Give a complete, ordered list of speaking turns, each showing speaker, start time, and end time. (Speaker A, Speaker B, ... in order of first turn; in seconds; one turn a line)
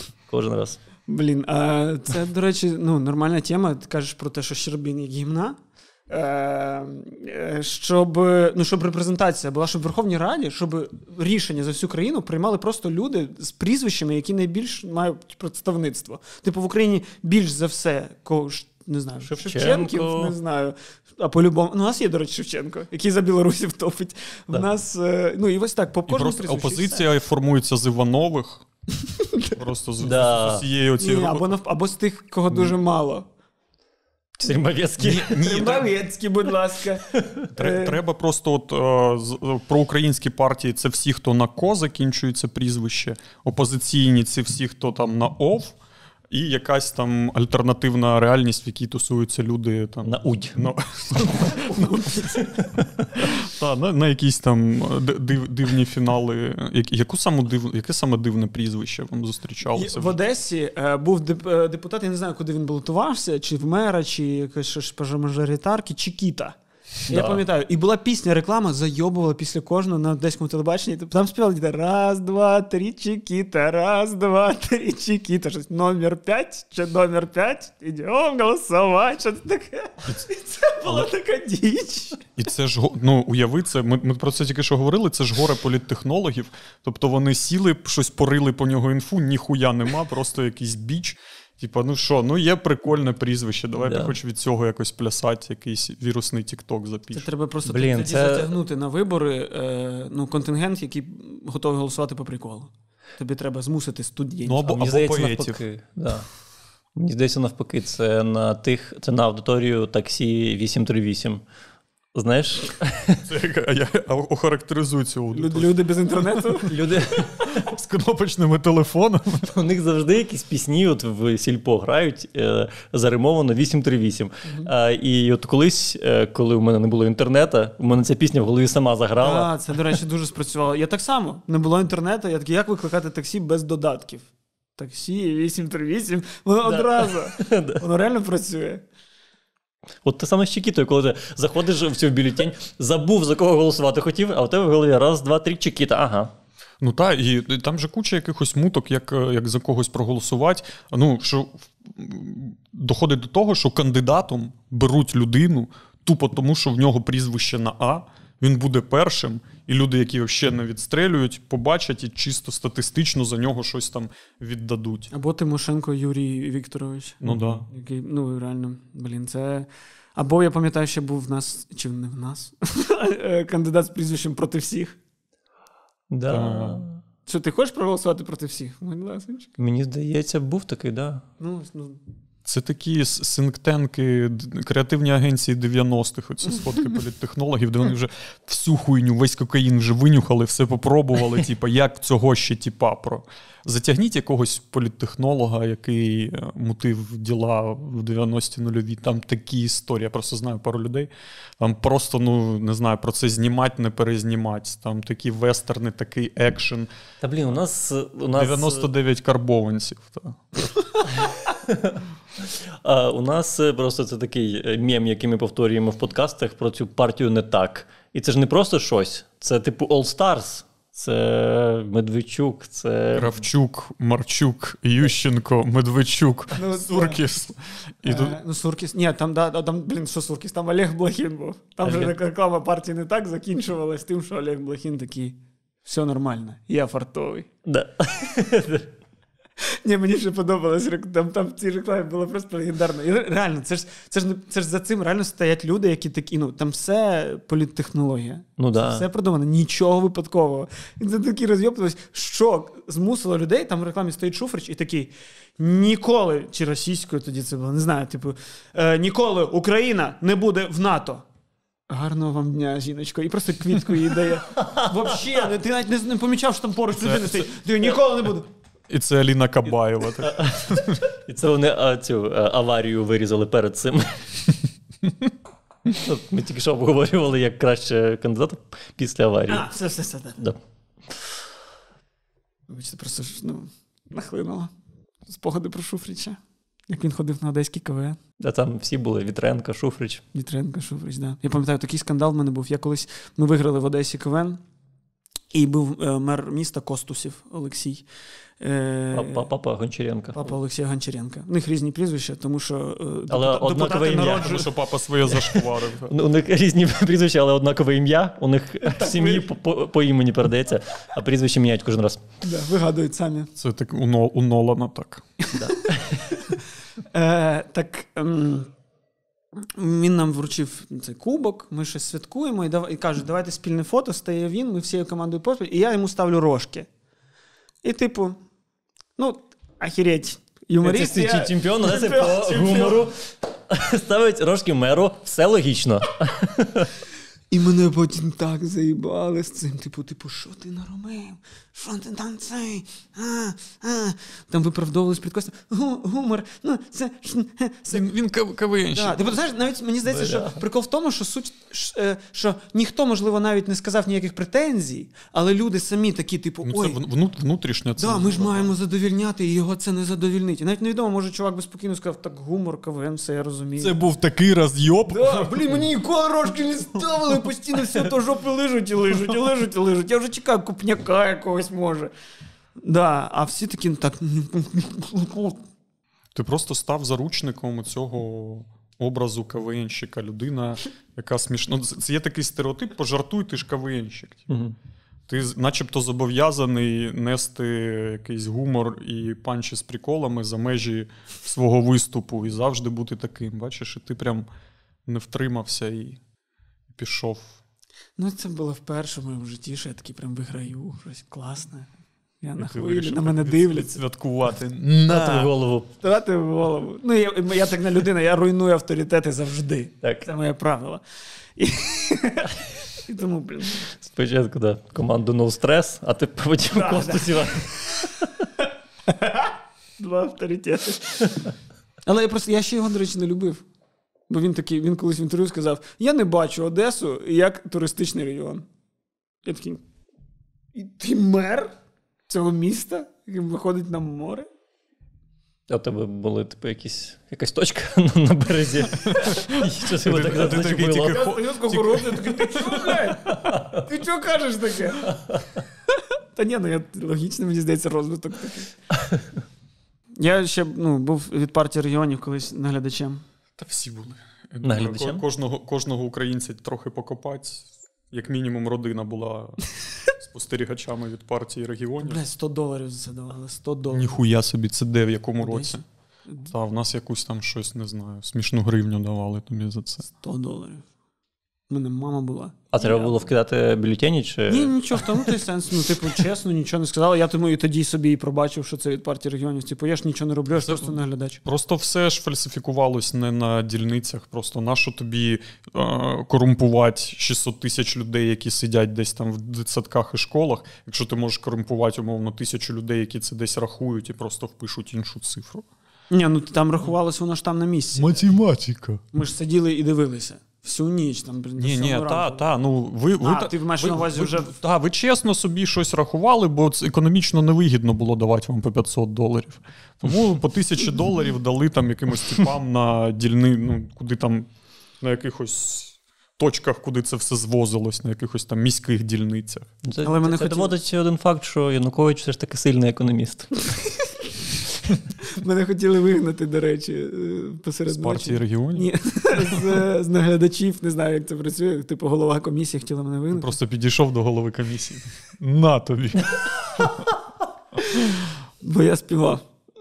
Speaker A: 0.3-0.8
Speaker B: 1.1-5.6
Speaker B: 6.1-27.0
Speaker A: 19.2-20.4
Speaker C: 26.1-28.6
Speaker B: 29.2-29.5
Speaker C: 29.6-31.5
Speaker A: 30.0-30.6
Speaker B: 31.0-33.3
Speaker A: 34.4-35.4
Speaker C: 35.0-35.9
Speaker B: 35.3-38.0
Speaker C: 37.5-45.8
Speaker C: 46.3-52.1
Speaker A: 50.0-50.6
Speaker B: 51.5-52.5
Speaker A: 52.6-53.1
Speaker C: 53.1-60.2
Speaker B: 59.7-82.2
Speaker A: 67.1-67.4
Speaker C: 80.8-81.1
Speaker C: 82.4-97.3
Speaker A: 93.8-94.1
Speaker B: 97.1-104.7
Speaker A: 97.7-98.5
Speaker C: 104.4-105.6
Speaker A: 104.7-106.3
Speaker A: 106.9-111.4
Speaker A: 112.1-113.2
Speaker C: 113.2-116.7
Speaker B: 115.3-116.7
Speaker A: 116.7-117.7
Speaker C: 117.4-119.5
Speaker A: 119.5-129.5
Speaker B: 124.5-124.7
Speaker B: 129.2-138.8
Speaker A: 136.6-137.8
Speaker A: 140.0-146.3
Speaker C: 146.8-165.1
Speaker B: 165.1-174.9
Speaker C: 167.2-167.7
Speaker A: 176.1-177.0
Speaker C: 176.3-176.8
Speaker B: 177.2-179.5
Speaker A: 179.6-181.2
Speaker B: 181.4-182.0
Speaker C: 182.4-206.9
Speaker A: 207.2-208.9
Speaker C: 208.3-210.7
Speaker A: 211.0-223.4
Speaker C: 223.1-228.4
Speaker B: 226.5-227.2
Speaker B: 228.0-237.5
Speaker A: 231.8-232.1
Speaker A: 237.7-238.9
Speaker B: 239.8-261.2
Speaker A: 248.6-249.0
Speaker B: 261.9-268.5
Speaker A: 264.5-265.4
Speaker C: 268.9-271.0
Speaker A: 270.2-274.3
Speaker A: 275.9-279.7
Speaker B: 279.5-280.4
Speaker B: 282.7-284.7
Speaker B: 285.3-288.2
Speaker A: 288.4-290.2
Speaker B: 290.3-294.6
Speaker B: 295.5-298.0
Speaker B: 298.6-299.5
Speaker A: 299.1-300.5
Speaker B: 300.3-304.7
Speaker A: 303.3-304.6
Speaker C: 304.2-306.1
Speaker A: 305.3-312.2
Speaker B: 308.9-309.4
Speaker B: 312.4-313.5
Speaker C: 313.6-315.3
Speaker A: 315.5-316.3
Speaker B: 315.8-316.4
Speaker B: 317.1-318.7
Speaker B: 319.6-326.9
Speaker B: 327.8-328.4
Speaker B: 329.2-333.1
Speaker A: 330.8-336.9
Speaker B: 337.5-348.1
Speaker C: 347.9-349.4
Speaker B: 348.9-357.0
Speaker A: 350.1-350.6
Speaker C: 356.6-358.7
Speaker B: 358.0-363.9
Speaker C: 363.8-365.8
Speaker B: 365.1-372.1
Speaker B: 372.8-375.6
Speaker C: 376.3-384.5
Speaker A: 384.5-384.7
Speaker C: 385.3-394.4
Speaker C: 395.1-396.2
Speaker C: 396.9-397.6
Speaker B: 398.2-401.9
Speaker B: 402.4-404.0
Speaker C: 402.6-405.5
Speaker A: 405.1-405.9
Speaker B: 406.0-411.0
Speaker A: 410.0-410.3
Speaker B: 411.6-413.9
Speaker A: 413.9-418.4
Speaker B: 416.7-418.2
Speaker B: 419.1-421.5
Speaker B: 422.1-423.6
Speaker B: 424.3-428.6
Speaker B: 429.4-429.8
Speaker B: 430.7-431.7
Speaker B: 432.3-434.5
Speaker A: 435.7-441.2
Speaker C: 439.1-442.9
Speaker B: 440.9-445.1
Speaker A: 443.3-443.8
Speaker A: 445.1-445.4
Speaker B: 445.9-448.7
Speaker A: 448.9-449.3
Speaker B: 450.2-453.2
Speaker C: 453.6-462.2
Speaker A: 454.6-455.2
Speaker B: 462.0-464.1
Speaker C: 463.9-465.8
Speaker B: 465.4-466.5
Speaker C: 466.5-470.1
Speaker B: 470.1-470.8
Speaker B: 471.7-473.2
Speaker A: 472.7-475.2
Speaker B: 474.5-481.4
Speaker C: 480.5-495.6
Speaker B: 496.1-498.2
Speaker C: 497.9-499.0
Speaker B: 499.1-502.4
Speaker C: 501.6-514.5
Speaker B: 503.2-504.5
Speaker C: 515.0-519.7
Speaker A: 519.9-523.7
Speaker B: 520.0-520.7
Speaker B: 525.3-533.5
Speaker C: 527.9-529.6
Speaker C: 533.3-537.0
Speaker B: 537.9-539.4